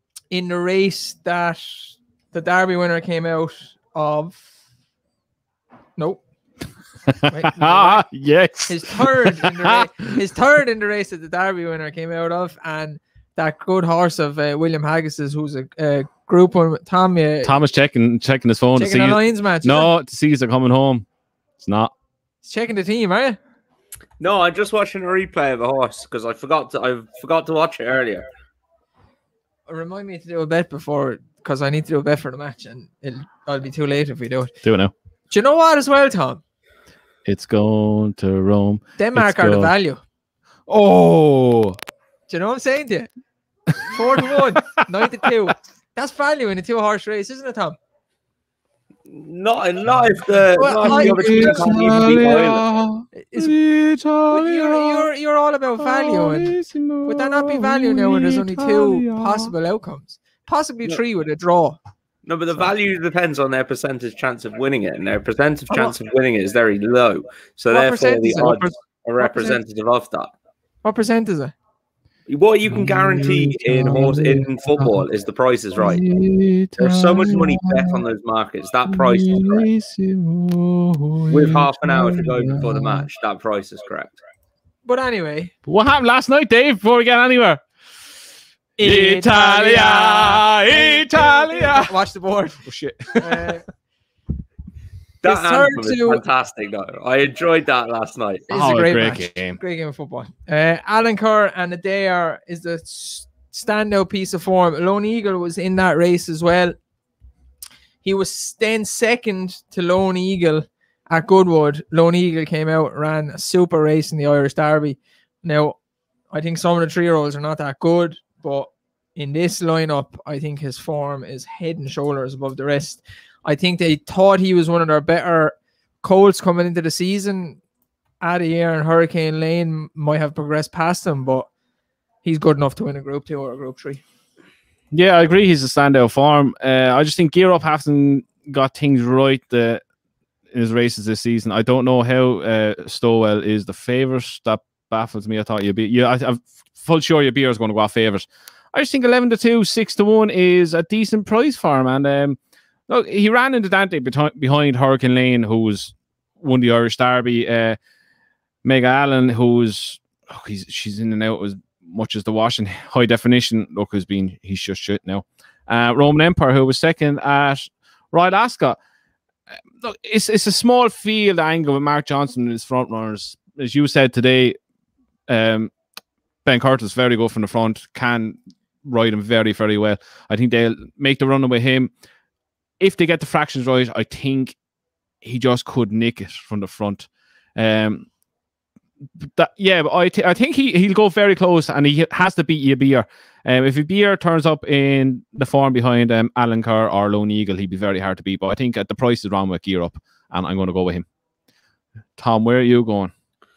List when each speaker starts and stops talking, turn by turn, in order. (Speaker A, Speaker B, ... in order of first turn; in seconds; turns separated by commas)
Speaker A: 0.3-4.5, Speaker A: 6.0-6.2, Speaker B: 7.1-9.8, Speaker A: 7.3-8.1, Speaker A: 8.7-17.5, Speaker B: 17.4-21.1, Speaker A: 18.8-19.9, Speaker B: 21.6-21.9, Speaker A: 22.4-23.4, Speaker C: 24.2-28.3, Speaker A: 29.7-34.5, Speaker B: 34.6-34.9, Speaker A: 35.3-36.4, Speaker B: 37.2-39.7, Speaker A: 39.0-40.0, Speaker B: 40.7-41.8, Speaker A: 42.3-43.1, Speaker A: 43.9-47.8, Speaker C: 49.1-52.6, Speaker A: 50.6-51.8, Speaker B: 50.8-55.1, Speaker A: 53.2-53.6, Speaker A: 54.3-61.8, Speaker B: 55.8-59.5, Speaker C: 62.3-70.3, Speaker A: 65.7-66.0, Speaker A: 67.7-69.6, Speaker A: 70.8-71.5, Speaker C: 72.3-76.0, Speaker B: 72.7-75.0, Speaker B: 75.8-78.0, Speaker C: 76.8-79.7, Speaker B: 78.9-83.1, Speaker C: 81.3-84.2, Speaker A: 84.8-85.5, Speaker B: 85.7-87.6, Speaker A: 88.8-93.7, Speaker B: 88.8-91.9, Speaker B: 92.6-93.5, Speaker C: 95.2-98.5, Speaker A: 95.2-96.2, Speaker A: 98.5-106.8, Speaker B: 98.5-99.6, Speaker A: 108.0-115.8, Speaker A: 116.3-127.6, Speaker A: 128.2-131.5, Speaker A: 132.2-134.0, Speaker B: 134.9-139.8, Speaker B: 140.5-157.8, Speaker B: 158.6-168.8, Speaker B: 169.8-174.6, Speaker B: 175.3-175.7, Speaker B: 176.4-181.9, Speaker B: 182.8-184.6, Speaker B: 185.2-188.1, Speaker B: 189.2-201.1, Speaker B: 202.2-203.1